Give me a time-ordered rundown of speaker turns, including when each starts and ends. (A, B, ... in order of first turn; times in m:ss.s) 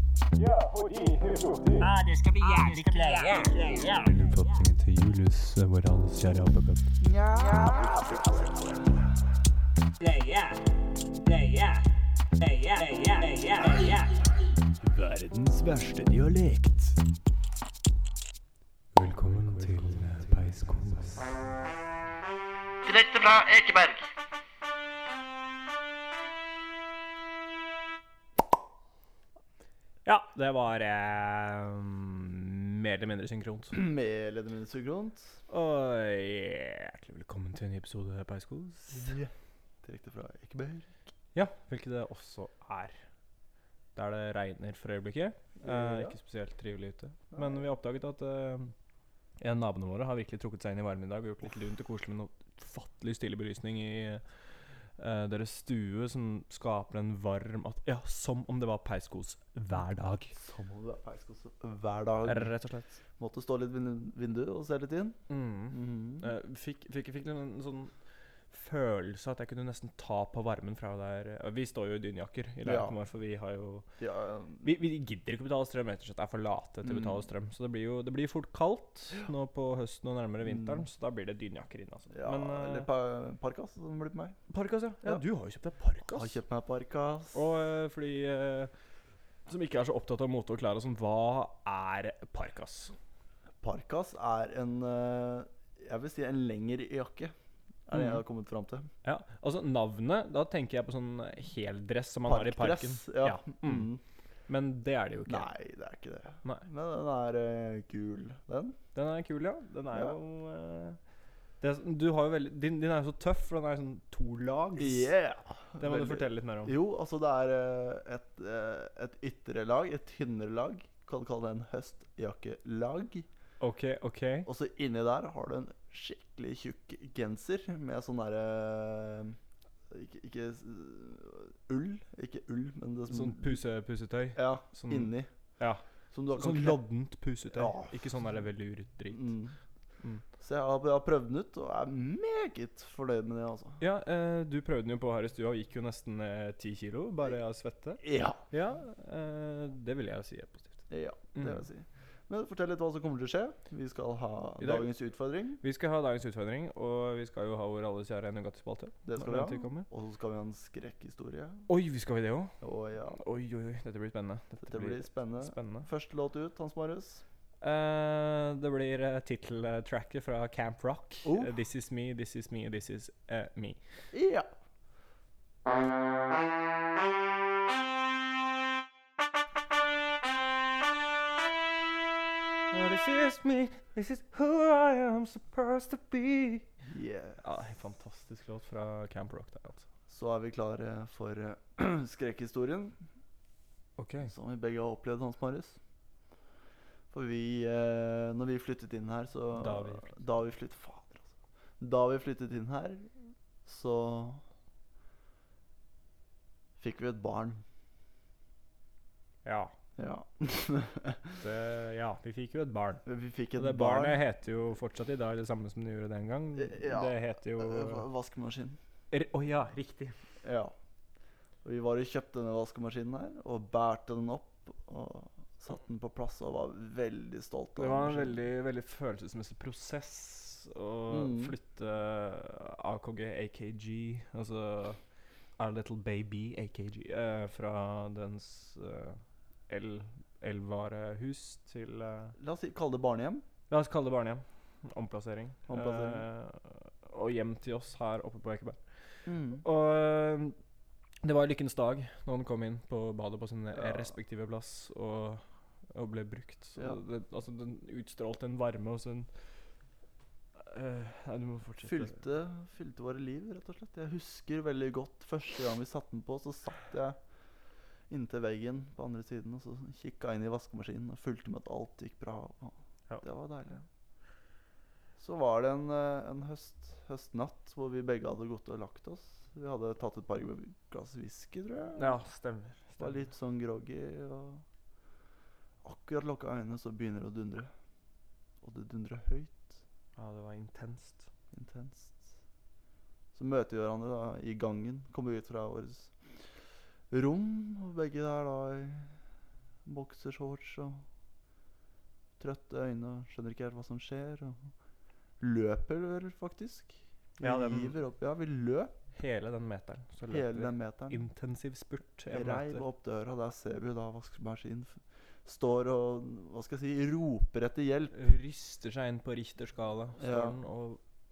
0:00.7-0:01.4 A
0:01.8-0:04.1 B
0:04.0-0:06.9 C
0:07.0-0:08.7 D
0:10.0-0:10.6 B
0:11.2-0:11.8 B
0:12.4-0:14.2 B
0:14.8-0:16.9 A
0:18.9-0:21.2 C
0:19.6-0:20.8 A
0:22.9-0:24.0 D
0:30.0-0:33.8 A
0:33.7-0:35.4 D
0:35.5-0:39.2 A
0:38.9-0:39.3 D
0:39.8-0:41.0 D
0:41.3-0:43.0 A
0:43.9-0:48.7 A
0:45.6-0:46.2 D
0:47.3-0:47.6 D
0:49.4-0:54.2 A
0:55.0-1:00.4 A
1:00.3-1:02.5 D
1:02.2-1:03.0 A
1:03.2-1:05.2 D
1:05.3-1:07.9 A
1:05.7-1:06.3 D
1:08.5-1:13.8 A
1:12.6-1:12.9 D
1:14.0-1:14.7 D
1:14.6-1:22.9 A
1:16.8-1:17.1 D
1:20.4-1:20.8 D
1:22.1-1:24.4 D
1:24.5-1:26.4 A
1:26.1-1:27.4 D
1:27.3-1:28.7 A
1:29.5-1:32.9 A
1:33.6-1:37.3 D
1:37.9-1:38.9 D
1:37.9-1:38.2 A
1:39.0-1:43.9 A
1:42.2-1:44.0 D
1:44.5-1:45.5 A
1:45.3-1:48.8 D
1:48.9-1:51.0 A
1:49.9-1:50.2 D
1:51.6-1:55.1 A
1:54.8-2:03.2 D
1:55.8-1:56.7 A
2:03.6-2:04.5 A
2:04.4-2:09.4 D
2:09.9-2:13.6 D
2:13.1-2:19.3 A
2:14.4-2:15.3 D
2:16.1-2:16.8 D
2:17.5-2:17.9 D
2:19.1-2:19.6 D
2:20.4-2:23.8 D
2:23.8-2:31.6 A
2:28.0-2:28.4 D
2:30.9-2:35.6 D
2:34.6-2:34.9 A
2:35.6-2:39.9 A
2:39.0-2:41.6 D
2:41.7-2:42.5 A
2:42.6-2:43.2 D
2:43.1-2:45.9 A
2:44.6-2:47.2 D
2:47.6-2:53.8 A
2:51.2-2:51.5 D
2:54.1-2:54.5 D
3:02.7-3:06.7 A
3:06.9-3:07.4 D
3:07.4-3:09.8 A
3:10.1-3:13.0 D
3:14.0-3:14.3 A
3:14.2-3:15.8 D
3:17.1-3:23.1 D
3:19.5-3:20.1 A
3:23.6-3:24.4 D
3:26.8-3:27.6 D
3:29.4-3:29.7 A
3:30.0-3:31.4 D
3:31.4-3:33.0 A
3:33.0-3:34.2 D
3:33.6-3:38.0 A
3:36.6-3:38.8 D
3:39.1-3:40.2 A
3:40.4-3:40.7 D
3:41.6-3:48.4 D
3:47.8-3:55.0 A
3:51.1-3:51.5 D
3:55.6-4:02.4 A
4:02.4-4:03.4 D
4:03.7-4:08.8 A
4:05.7-4:06.2 D
4:09.2-4:09.6 D
4:09.6-4:10.6 A
4:11.2-4:19.3 A
4:13.7-4:14.1 D
4:20.6-4:22.2 A
4:21.8-4:27.2 D
4:28.1-4:33.8 D
4:35.2-4:42.2 D
4:41.9-4:43.2 A
4:43.0-4:44.6 D
4:45.8-4:47.7 D
4:48.6-4:49.8 D
4:50.2-4:51.3 A
4:51.5-4:52.2 D
4:53.3-4:56.1 D
4:57.1-4:59.1 D
4:59.8-5:01.0 D
5:02.4-5:04.7 D
5:05.4-5:08.9 D
5:07.4-5:08.0 A
5:09.1-5:12.8 A
5:10.3-5:11.2 D
5:12.3-5:18.1 D
5:18.1-5:21.0 A
5:20.2-5:20.6 D